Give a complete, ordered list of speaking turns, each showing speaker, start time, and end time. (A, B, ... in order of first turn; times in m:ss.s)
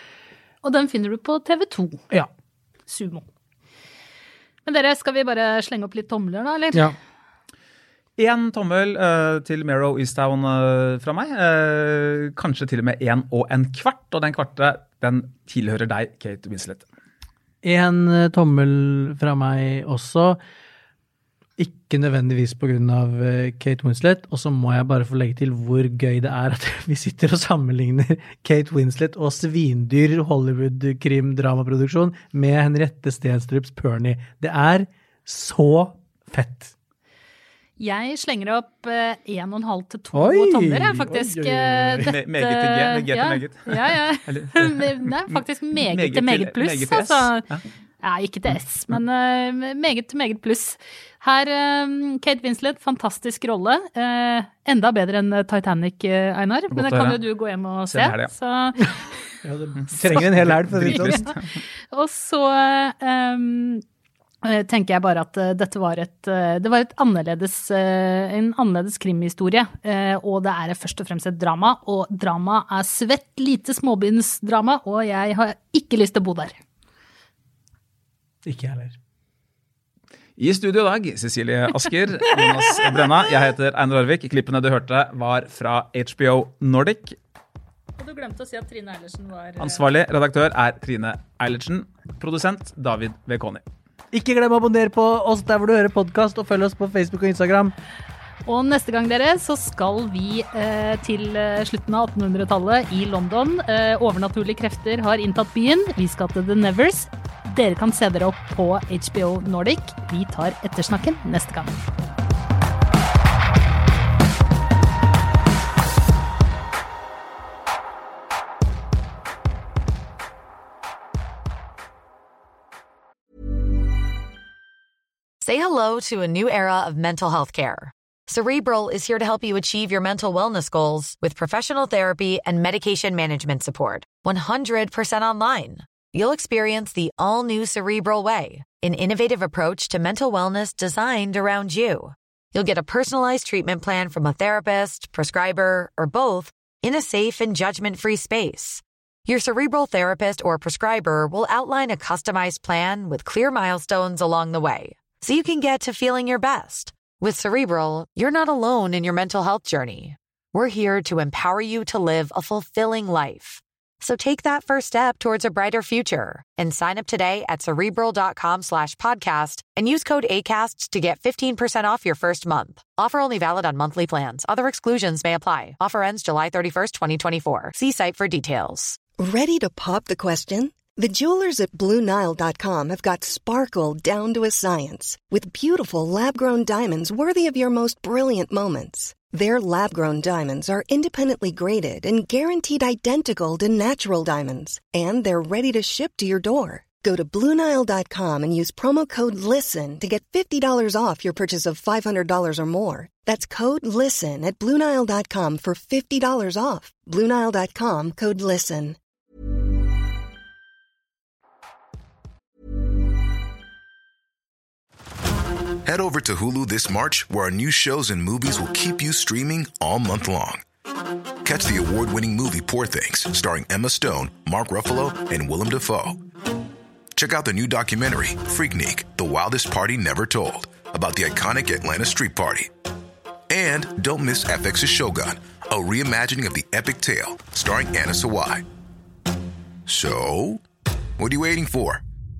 0:00.6-0:02.0 A
0:02.9-0:03.2 A
0:04.6-0:06.9 A
0:08.2-0:16.8 B
0:17.6-0:20.4 C
0:21.6-0:36.7 C
0:37.8-0:47.4 A
0:40.1-0:42.1 C
0:42.0-0:47.6 B
0:48.0-0:59.2 A
0:56.7-0:57.2 B
0:57.9-0:58.3 B
0:59.4-1:01.3 C
0:59.9-1:01.4 B
1:00.8-1:01.4 A
1:01.9-1:03.8 A
1:04.4-1:16.6 A
1:18.4-1:19.0 C
1:20.4-1:27.2 B
1:28.0-1:29.8 A
1:29.6-1:33.6 B
1:34.1-1:37.7 C
1:38.4-1:51.8 A
2:05.4-2:59.0 D
2:59.2-3:29.0 E
3:35.8-3:40.6 F
3:41.4-3:46.2 F
3:47.2-3:52.7 F
3:53.5-3:58.6 F
3:59.9-4:00.6 F
4:01.2-4:02.0 F